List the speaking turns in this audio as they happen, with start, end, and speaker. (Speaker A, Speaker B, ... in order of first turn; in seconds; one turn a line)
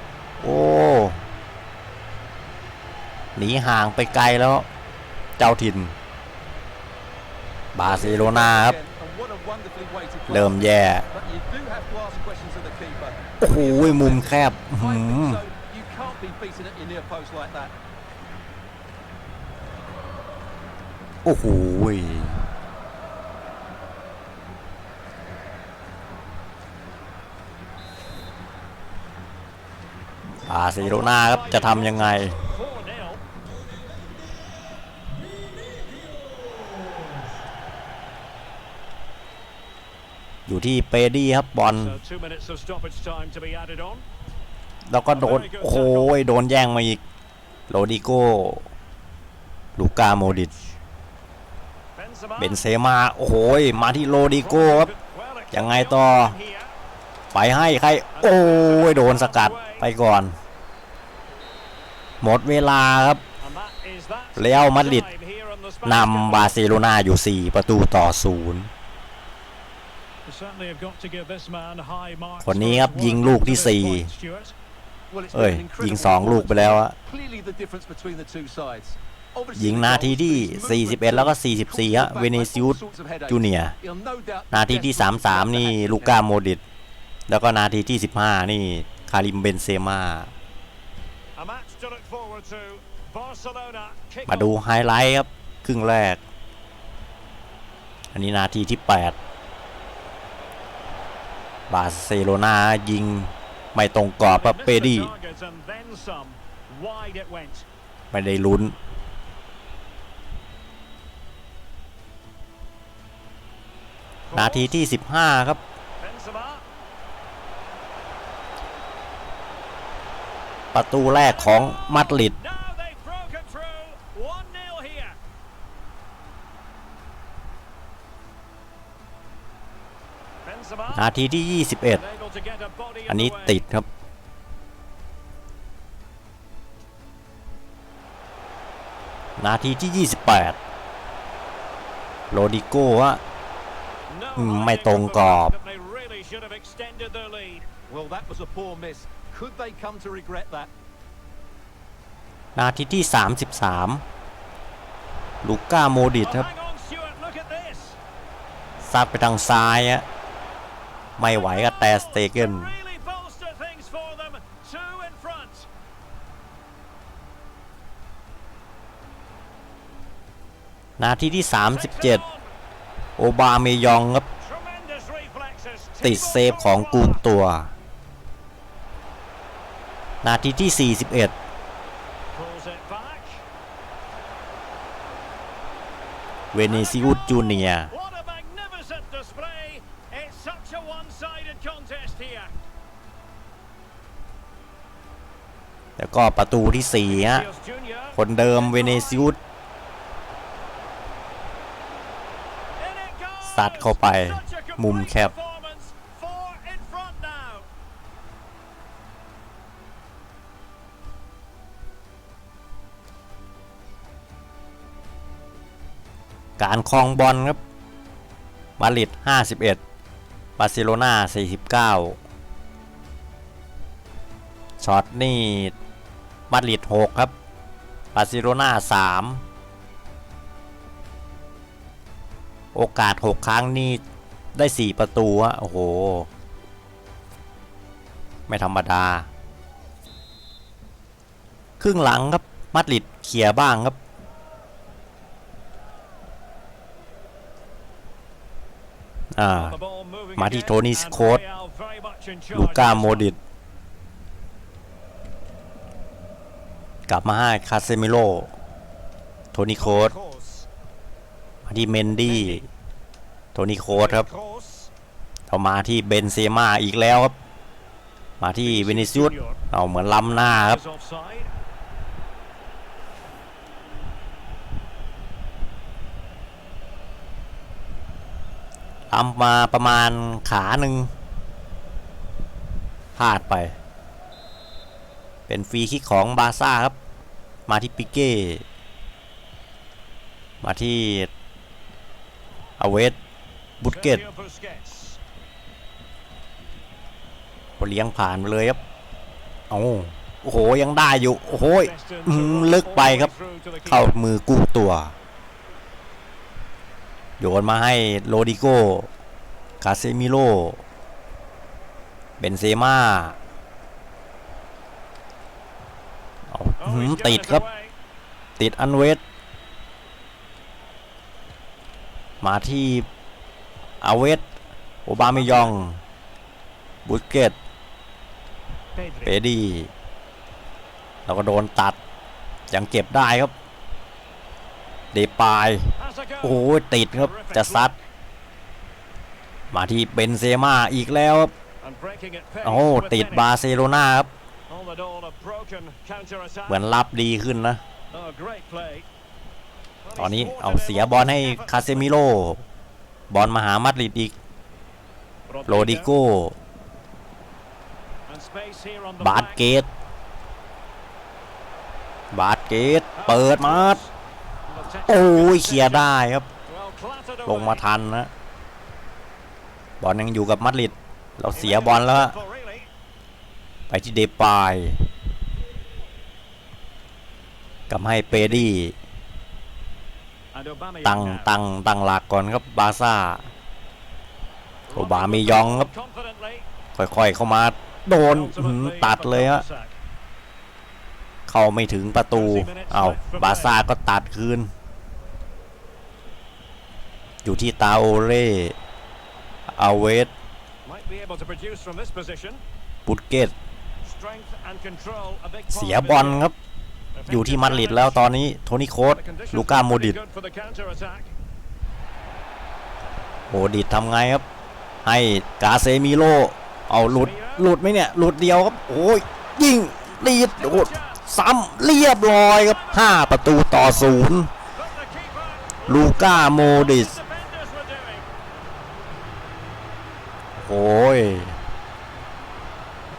Speaker A: 0.4-1.2
Speaker A: 3.4-4.7
Speaker A: 5.4-5.9
Speaker A: 7.7-8.8
Speaker B: 7.8-17.7
Speaker A: 10.3-11.1
Speaker A: 13.4-15.4
Speaker A: 21.2-22.4
Speaker A: 30.5-32.4
Speaker C: 30.8-33.2
Speaker A: 40.5-42.0
Speaker C: 41.6-44.0
Speaker A: 44.9-47.0
Speaker C: 45.1-46.2
Speaker A: 47.7-48.6
Speaker A: 49.8-50.5
Speaker C: 50.2-50.6
Speaker C: 52.0-52.6
Speaker A: 52.4-54.9
Speaker C: 54.4-56.7
Speaker A: 55.5-56.3
Speaker A: 57.3-60.4
Speaker C: 58.1-59.9
Speaker A: 62.2-63.2
Speaker C: 63.4-66.6
Speaker A: 64.4-65.1
Speaker A: 65.8-68.7
Speaker C: 70.2-74.5
Speaker A: 72.4-74.1
Speaker B: 75.1-86.2
Speaker A: 75.3-77.0
Speaker A: 79.5-83.7
Speaker A: 84.5-86.6
Speaker A: 87.3-90.3
Speaker C: 91.3-94.6
Speaker A: 94.3-96.2
Speaker A: 98.1-99.2
Speaker A: 101.7-105.1
Speaker C: 104.2-107.7
Speaker A: 108.1-108.8
Speaker C: 114.3-114.8
Speaker A: 114.3-115.6
Speaker C: 116.0-116.7
Speaker A: 120.7-122.3
Speaker C: 121.2-125.2
Speaker C: 130.4-131.1
Speaker A: 130.9-132.0
Speaker C: 131.9-133.6
Speaker A: 133.1-133.8
Speaker A: 139.4-140.6
Speaker A: 142.3-143.2
Speaker C: 144.1-147.7
Speaker A: 144.3-145.5
Speaker B: 147.9-150.7
Speaker A: 152.6-154.0
Speaker A: 155.4-156.5
Speaker C: 156.1-158.0
Speaker A: 158.8-160.0
Speaker A: 161.2-162.7
Speaker C: 161.2-165.7
Speaker A: 171.0-172.2
Speaker C: 171.7-172.5
Speaker A: 173.2-174.3
Speaker C: 174.4-177.2
Speaker A: 176.0-177.7
Speaker A: 180.2-181.3
Speaker C: 182.3-183.4
Speaker A: 186.5-187.9
Speaker C: 186.6-192.5
Speaker A: 196.0-197.5
Speaker C: 197.1-199.3
Speaker A: 198.1-199.4
Speaker C: 202.8-207.7
Speaker A: 203.4-205.3
Speaker A: 216.6-217.6
Speaker A: 218.8-219.8
Speaker A: 220.6-222.2
Speaker A: 224.8-225.7
Speaker A: 226.5-227.3
Speaker A: 228.1-229.4
Speaker A: 232.7-234.0
Speaker A: 234.5-236.3
Speaker A: 238.5-239.3
Speaker A: 241.8-244.0
Speaker A: 249.3-249.8
Speaker C: 249.5-253.3
Speaker A: 250.4-251.4
Speaker A: 252.5-253.4
Speaker A: 257.1-258.5
Speaker A: 259.5-260.1
Speaker C: 259.8-260.7
Speaker A: 261.6-262.6
Speaker C: 262.2-262.6
Speaker A: 263.5-264.3
Speaker C: 263.9-264.9
Speaker A: 265.5-267.3
Speaker A: 268.4-270.8
Speaker C: 268.6-269.6
Speaker C: 270.2-271.5
Speaker A: 279.1-281.1
Speaker A: 283.1-283.8
Speaker A: 285.5-286.9
Speaker A: 287.7-288.6
Speaker A: 290.6-291.3
Speaker A: 292.8-293.2
Speaker A: 293.8-294.2
Speaker C: 293.8-295.2
Speaker A: 297.8-298.8
Speaker A: 299.7-303.3
Speaker C: 301.5-304.2
Speaker A: 303.9-305.1
Speaker A: 307.4-309.1
Speaker A: 309.8-310.8
Speaker A: 312.4-313.4
Speaker A: 316.5-317.6
Speaker C: 316.8-317.9
Speaker A: 318.6-319.2
Speaker A: 322.4-323.1
Speaker A: 324.0-324.4
Speaker A: 325.1-326.0
Speaker C: 325.2-325.8
Speaker A: 327.1-327.6
Speaker C: 328.9-329.4
Speaker A: 329.2-329.9
Speaker A: 331.2-332.0
Speaker A: 332.7-333.5
Speaker A: 335.1-337.9
Speaker C: 336.0-338.1
Speaker A: 339.7-341.5
Speaker C: 341.8-343.5
Speaker A: 342.6-344.3
Speaker C: 344.7-346.9
Speaker A: 346.7-347.8
Speaker C: 348.1-349.1
Speaker C: 350.0-352.1
Speaker A: 350.1-352.6
Speaker A: 353.3-354.3
Speaker C: 355.5-356.1
Speaker A: 355.7-356.6
Speaker C: 358.3-359.8
Speaker A: 359.2-359.9
Speaker A: 362.3-364.0
Speaker C: 363.1-364.1
Speaker C: 364.7-366.1
Speaker A: 365.1-366.5
Speaker C: 366.6-367.8
Speaker A: 367.4-368.3
Speaker A: 370.0-372.3
Speaker C: 371.5-372.9
Speaker A: 373.9-375.0
Speaker A: 377.9-378.9
Speaker C: 378.3-378.7
Speaker C: 380.5-381.6
Speaker A: 381.0-383.5
Speaker C: 384.9-386.6
Speaker A: 384.9-385.9
Speaker A: 386.9-389.6
Speaker C: 388.2-390.0
Speaker A: 391.5-394.7
Speaker C: 392.3-393.8
Speaker A: 397.4-398.7
Speaker A: 399.8-400.3
Speaker C: 400.8-402.6
Speaker A: 403.1-403.5
Speaker C: 404.0-406.5
Speaker A: 405.7-406.5
Speaker C: 407.1-408.3
Speaker A: 407.3-410.2
Speaker C: 409.1-411.3
Speaker A: 413.5-414.4
Speaker A: 415.0-424.5
Speaker C: 417.0-417.7
Speaker C: 420.5-421.3
Speaker C: 422.1-428.3
Speaker A: 425.9-427.1
Speaker A: 430.6-431.6